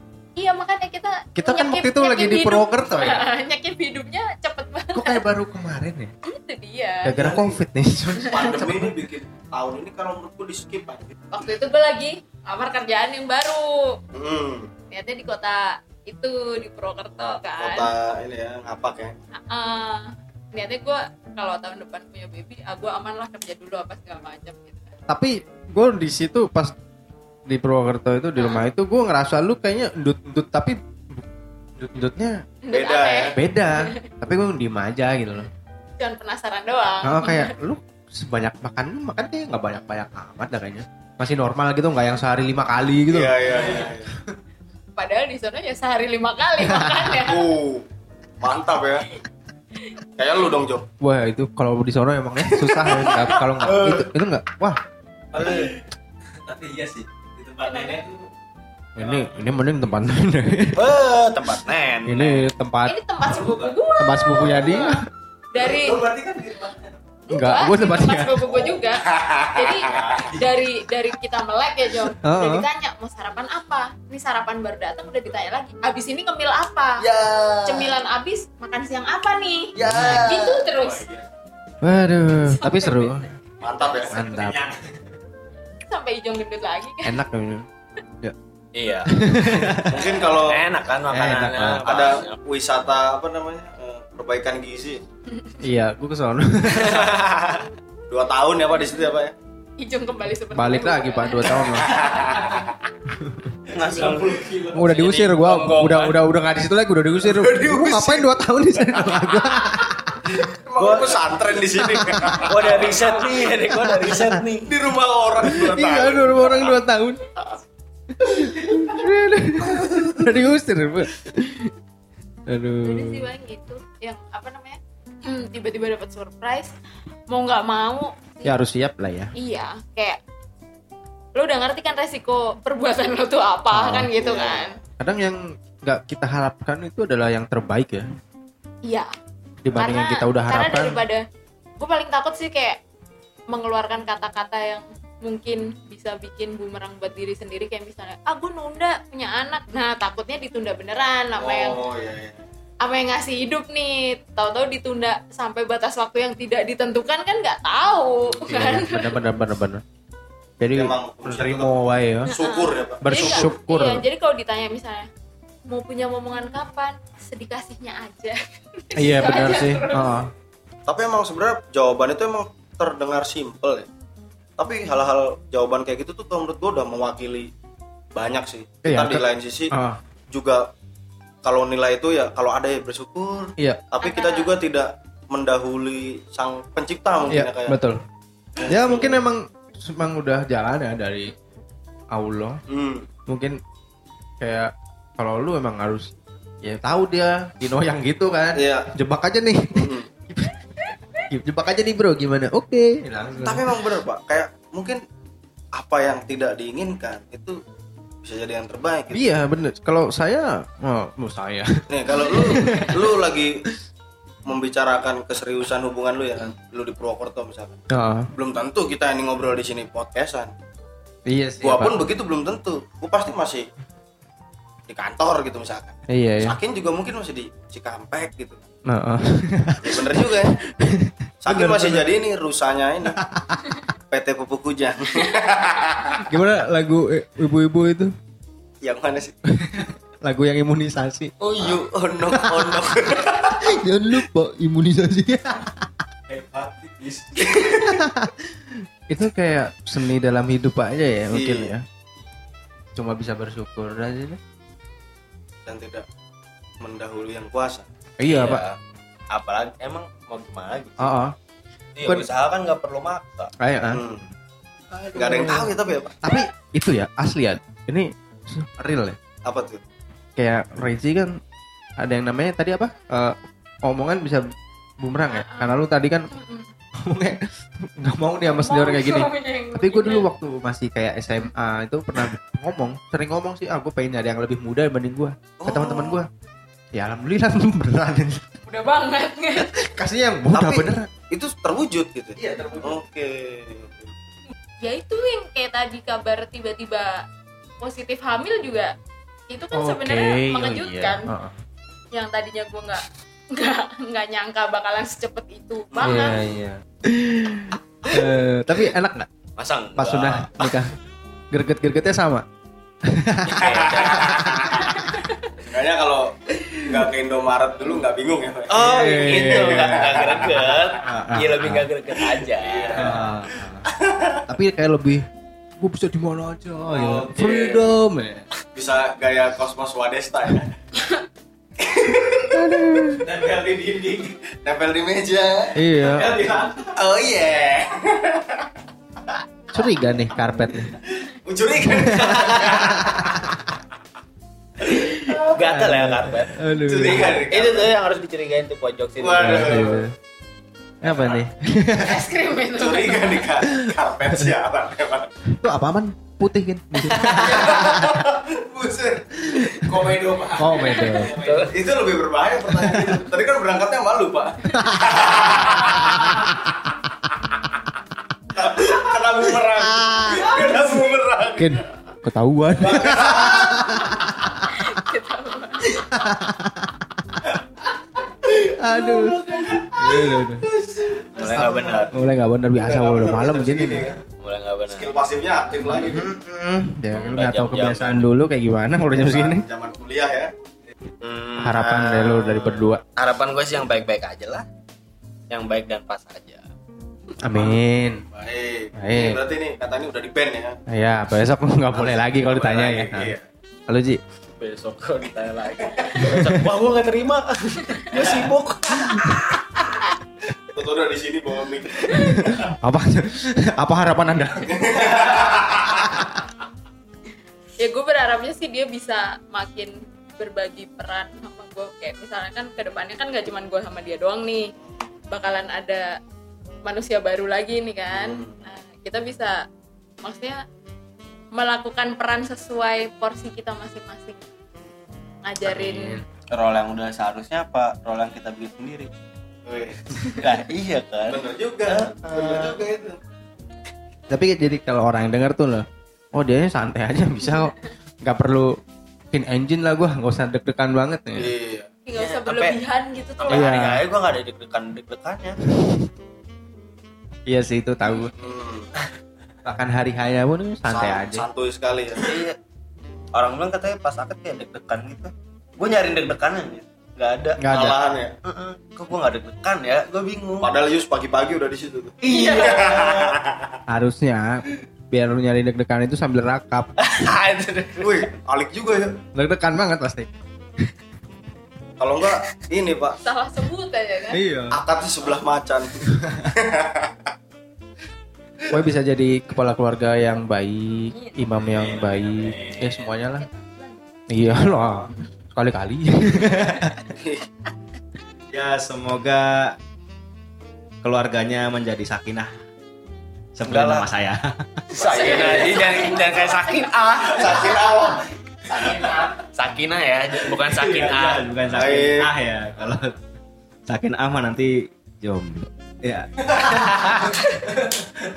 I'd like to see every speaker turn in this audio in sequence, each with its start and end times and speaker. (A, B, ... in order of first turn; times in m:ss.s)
0:00.4-0:05.2 A
0:01.4-0:03.2 B
0:04.9-0:06.1 B
0:06.2-0:07.1 A
0:07.0-0:09.0 B
0:07.1-0:07.6 C
0:08.2-0:11.2 C
0:11.3-0:14.0 A
0:14.1-0:14.7 C
0:14.9-0:17.9 A
0:17.6-0:19.1 C
0:19.4-0:25.0 A
0:25.1-0:26.7 B
0:27.5-0:31.2 B
0:31.8-0:32.4 B
0:32.6-0:34.0 A
0:32.7-0:33.4 C
0:33.4-0:35.5 B
0:36.0-0:37.5 A
0:37.0-0:43.9 B
0:43.1-0:44.1 C
0:45.0-0:47.5 A
0:46.6-0:47.0 B
0:47.1-0:47.8 C
0:48.4-0:49.1 C
0:50.2-0:50.9 C
0:51.0-0:54.8 B
0:52.8-0:54.0 D
0:55.3-0:55.7 D
0:56.5-0:58.0 E
0:57.6-0:58.0 A
0:59.0-1:01.0 B
1:00.7-1:02.5 D
1:02.0-1:03.0 B
1:02.8-1:05.0 A
1:04.0-1:05.0 B
1:05.5-1:06.1 A
1:05.6-1:06.1 C
1:06.0-1:06.7 E
1:07.3-1:17.0 A
1:07.3-1:08.5 B
1:09.1-1:10.2 C
1:12.2-1:12.6 B
1:17.0-1:17.9 C
1:17.6-1:21.0 A
1:19.8-1:21.2 C
1:19.8-1:20.3 B
1:21.8-1:23.2 B
1:22.4-1:23.3 A
1:23.6-1:24.3 C
1:24.1-1:24.7 B
1:24.3-1:24.7 E
1:25.8-1:27.2 A
1:27.0-1:27.7 B
1:28.7-1:32.4 D
1:29.0-1:30.1 B
1:29.9-1:30.6 C
1:31.1-1:31.8 B
1:31.8-1:35.0 C
1:35.6-1:37.2 B
1:36.7-1:37.7 D
1:38.1-1:39.3 C
1:39.8-1:42.4 A
1:40.5-1:41.9 B
1:43.1-1:43.5 B
1:43.7-1:46.2 D
1:43.8-1:44.4 C
1:44.7-1:50.2 B
1:47.2-1:48.4 C
1:50.3-1:53.5 C
1:50.8-1:51.3 D
1:51.8-1:52.5 B
1:52.4-1:54.7 D
1:53.7-1:54.4 B
1:54.6-1:56.7 C
1:55.4-1:57.2 B
1:58.2-2:01.7 B
1:58.3-1:58.9 C
2:02.5-2:03.3 B
2:02.8-2:06.7 A
2:07.3-2:08.6 A
2:08.4-2:09.3 B
2:09.4-2:10.2 A
2:11.3-2:14.7 A
2:13.7-2:14.1 B
2:14.1-2:14.8 C
2:15.0-2:18.0 B
2:19.6-2:21.0 B
2:19.7-2:21.2 A
2:21.8-2:22.8 A
2:23.5-2:31.8 A
2:31.4-2:32.4 C
2:32.8-2:39.1 A
2:38.3-2:39.8 B
2:40.6-2:42.3 B
2:40.7-2:43.5 C
2:42.2-2:45.1 A
2:43.0-2:44.0 B
2:45.7-2:50.1 A
2:48.9-2:50.3 B
2:50.9-2:53.9 C
2:54.6-2:57.5 C
2:58.1-2:59.7 C
2:58.8-3:00.0 B
3:00.3-3:00.7 C
3:01.4-3:07.8 C
3:04.0-3:04.5 A
3:07.3-3:08.0 B
3:08.6-3:09.2 C
3:08.7-3:11.3 B
3:12.1-3:12.6 B
3:12.7-3:13.1 C
3:13.3-3:13.6 B
3:14.4-3:16.1 B
3:16.6-3:20.6 B
3:18.5-3:18.9 C
3:19.7-3:20.1 C
3:21.3-3:23.8 B
3:23.3-3:25.0 C
3:25.7-3:27.6 C
3:28.2-3:29.2 C
3:29.1-3:33.2 B
3:31.9-3:33.6 C
3:34.4-3:37.8 C
3:37.9-3:38.3 B
3:38.3-3:40.5 C
3:41.3-3:42.0 B
3:41.6-3:43.7 C
3:44.9-3:48.6 C
3:46.1-3:46.6 B
3:48.9-3:52.1 B
3:49.8-3:50.6 C
3:51.4-3:53.2 C
3:53.2-3:53.7 B
3:54.1-3:56.3 C
3:56.2-3:58.1 B
3:58.8-3:59.3 C
3:59.5-4:01.3 B
4:01.4-4:01.8 D
4:01.5-4:03.8 C
4:02.2-4:05.8 B
4:06.3-4:07.7 D
4:07.4-4:08.0 C
4:07.9-4:11.8 B
4:11.3-4:11.7 C
4:12.9-4:14.4 B
4:15.6-4:16.0 C
4:16.8-4:17.9 C
4:18.2-4:18.6 B
4:18.2-4:18.8 D
4:19.3-4:21.1 D
4:21.0-4:21.3 B
4:22.0-4:23.5 D
4:23.6-4:24.0 B
4:23.9-4:24.3 C
4:25.0-4:29.2 B
4:25.1-4:26.3 C
4:29.4-4:29.8 C
4:30.4-4:31.4 B
4:32.0-4:34.5 B
4:35.0-4:36.3 B
4:35.3-4:35.8 A
4:36.3-4:36.7 A
4:37.0-4:46.3 B
4:38.5-4:40.3 A
4:45.6-4:46.2 C
4:46.9-4:48.4 B
4:48.6-4:49.7 A
4:49.6-4:51.1 B
4:50.5-4:54.1 C
4:54.8-4:57.2 A
4:57.8-4:58.9 A
4:59.5-5:01.3 A
4:59.7-5:01.6 B
5:02.1-5:06.4 A
5:05.9-5:06.4 C
5:06.0-5:09.3 B
5:09.6-5:10.8 D
5:10.0-5:10.9 B
5:11.5-5:12.4 B
5:13.0-5:14.6 B
5:13.4-5:15.1 D
5:13.6-5:14.4 C
5:15.1-5:15.3 A
5:15.5-5:21.0 C
5:16.6-5:17.0 B
5:18.7-5:23.2 D
5:18.8-5:20.3 B
5:21.0-5:21.8 B
5:22.2-5:24.5 C
5:23.0-5:23.8 B
5:24.5-5:25.2 B
5:25.8-5:28.4 B
5:26.9-5:27.9 C
5:28.7-5:30.7 C
5:31.8-5:32.6 C
5:32.5-5:33.3 B
5:33.4-5:38.6 C
5:33.4-5:34.2 D
5:35.7-5:36.3 B
5:36.1-5:36.7 D
5:39.3-5:43.5 C
5:39.7-5:40.9 B
5:41.8-5:43.3 B
5:42.2-5:43.0 D
5:44.8-5:45.5 C
5:44.9-5:47.4 B
5:45.3-5:50.0 D
5:46.8-5:47.9 C
5:49.2-5:50.0 C
5:49.4-5:50.1 B
5:51.0-5:52.2 B
5:51.0-5:51.4 C
5:52.0-5:53.5 A
5:52.8-5:55.3 C
5:53.7-5:54.5 B
5:55.5-5:58.3 B
5:57.1-5:57.7 D
5:57.2-6:06.3 C
5:59.5-6:01.4 B
6:00.0-6:01.8 D
6:02.8-6:03.2 B
6:04.7-6:05.2 B
6:08.5-6:11.9 C
6:09.8-6:10.5 B
6:11.6-6:14.8 B
6:12.8-6:14.4 C
6:14.7-6:16.1 A
6:16.1-6:17.0 B
6:18.3-6:22.2 C
6:18.7-6:20.6 B
6:21.4-6:22.1 D
6:21.5-6:24.1 B
6:22.8-6:24.2 C
6:24.4-6:25.1 D
6:24.9-6:26.3 C
6:25.9-6:29.6 B
6:27.3-6:28.2 D
6:29.1-6:30.5 C
6:31.2-6:34.6 D
6:31.6-6:33.0 B
6:35.5-6:36.6 D
6:37.4-6:38.2 B
6:37.5-6:40.8 C
6:39.0-6:39.4 B
6:40.9-6:43.4 B
6:42.3-6:43.1 D
6:42.9-6:43.4 C
6:43.9-6:44.2 B
6:44.6-6:50.1 D
6:46.0-6:46.4 C
6:48.1-6:48.4 C
6:50.7-6:52.7 C
6:52.1-6:56.2 B
6:54.6-6:56.0 C
6:57.8-7:04.7 A
7:05.3-7:06.2 A
7:06.8-7:09.6 A
7:08.1-7:08.6 C
7:10.2-7:10.6 A
7:11.5-7:14.4 A
7:15.4-7:16.2 A
7:15.7-7:16.2 B
7:16.5-7:19.1 D
7:19.6-7:20.5 C
7:20.3-7:22.8 D
7:21.3-7:23.2 C
7:24.3-7:28.8 B
7:29.3-7:31.5 B
7:31.4-7:31.9 C
7:32.0-7:33.7 A
7:32.1-7:32.8 D
7:33.4-7:35.6 D
7:33.5-7:34.0 B
7:35.7-7:36.0 B
7:37.5-7:38.3 B
7:38.4-7:38.9 C
7:39.6-7:41.4 B
7:40.9-7:42.3 C
7:42.2-7:42.6 D
7:43.3-7:47.8 D
7:47.6-7:48.0 B
7:47.7-7:48.3 C
7:48.4-7:50.7 D
7:50.6-7:53.5 C
7:52.2-7:53.5 D
7:53.9-7:56.9 B
7:57.0-7:58.3 D
7:58.0-7:59.2 C
7:59.3-8:00.3 B
8:02.0-8:03.2 C
8:03.2-8:04.4 A
8:04.3-8:04.8 B
8:04.7-8:07.3 C
8:08.7-8:13.4 B
8:11.1-8:11.5 A
8:11.6-8:13.1 D
8:13.4-8:13.9 A
8:14.3-8:17.0 B
8:17.1-8:17.4 C
8:18.5-8:19.7 E
8:21.0-8:22.5 E
8:23.6-8:24.8 E
8:23.7-8:24.1 D
8:24.9-8:28.1 D
8:24.9-8:26.3 C
8:27.2-8:29.3 C
8:28.7-8:31.5 D
8:30.8-8:33.1 E
8:31.7-8:32.3 C
8:33.9-8:36.9 E
8:36.7-8:37.4 D